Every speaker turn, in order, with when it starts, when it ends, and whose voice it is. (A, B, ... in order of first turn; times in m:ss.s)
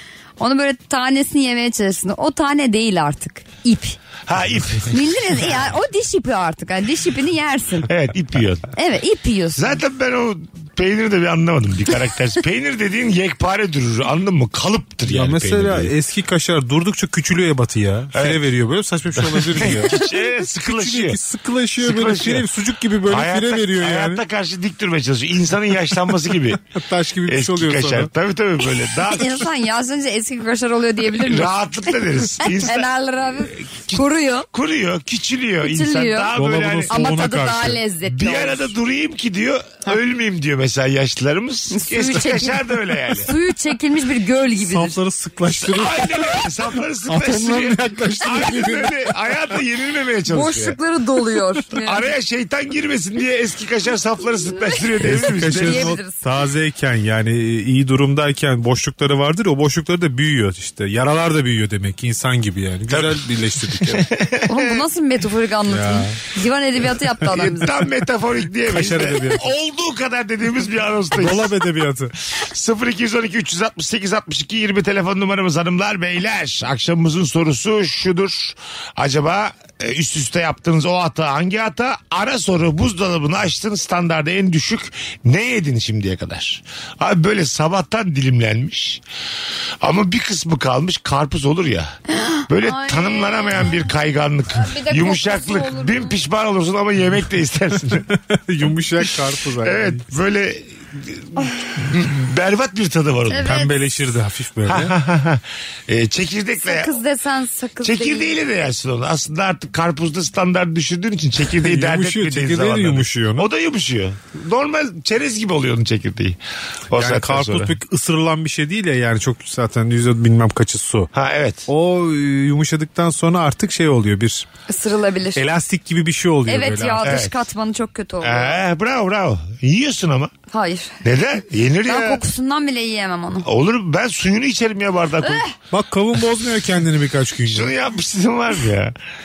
0:00.4-0:04.0 A
0:04.2-0:05.4 B
0:04.9-0:07.9 A
0:07.9-0:08.7 B
0:08.8-0:09.8 A
0:09.6-0:15.9 B
0:15.1-0:20.1 C
0:18.1-0:18.4 B
0:19.2-0:21.2 B
0:20.6-0:24.2 C
0:21.8-0:22.5 B
0:23.0-0:26.6 B
0:26.7-0:28.1 C
0:27.2-0:29.5 B
0:29.0-0:34.5 A
0:31.1-0:32.9 B
0:33.4-0:37.2 B
0:35.6-0:36.3 A
0:36.3-0:37.8 C
0:36.9-0:38.7 A
0:38.0-0:43.3 B
0:41.7-0:45.0 A
0:44.6-0:46.5 C
0:45.5-0:50.8 B
0:47.1-0:49.0 C
0:50.3-0:52.0 A
0:51.7-0:56.0 B
0:54.7-0:56.2 A
0:55.0-1:04.1 C
1:02.9-1:04.8 B
1:04.5-1:07.8 A
1:05.7-1:06.2 C
1:07.3-1:11.6 B
1:08.7-1:09.4 C
1:11.1-1:12.1 C
1:12.3-1:29.0 B
1:29.8-1:32.0 B
1:32.2-1:33.9 A
1:32.5-1:38.1 B
1:34.5-1:36.2 A
1:38.3-1:40.0 C
1:39.0-1:43.6 B
1:43.3-1:43.7 A
1:43.4-1:44.9 C
1:44.6-1:47.0 B
1:46.6-1:48.4 A
1:47.8-1:56.4 B
1:51.6-1:53.5 C
1:56.9-1:57.8 B
1:56.9-2:01.1 C
2:01.1-2:01.7 B
2:01.7-2:04.4 C
2:04.7-2:05.4 A
2:05.3-2:07.2 C
2:06.5-2:08.6 A
2:07.0-2:07.3 B
2:08.2-2:10.3 B
2:10.5-2:10.9 A
2:11.0-2:12.2 B
2:11.9-2:13.5 A
2:13.4-2:15.4 B
2:15.2-2:15.5 A
2:15.7-2:17.7 C
2:17.4-2:18.9 B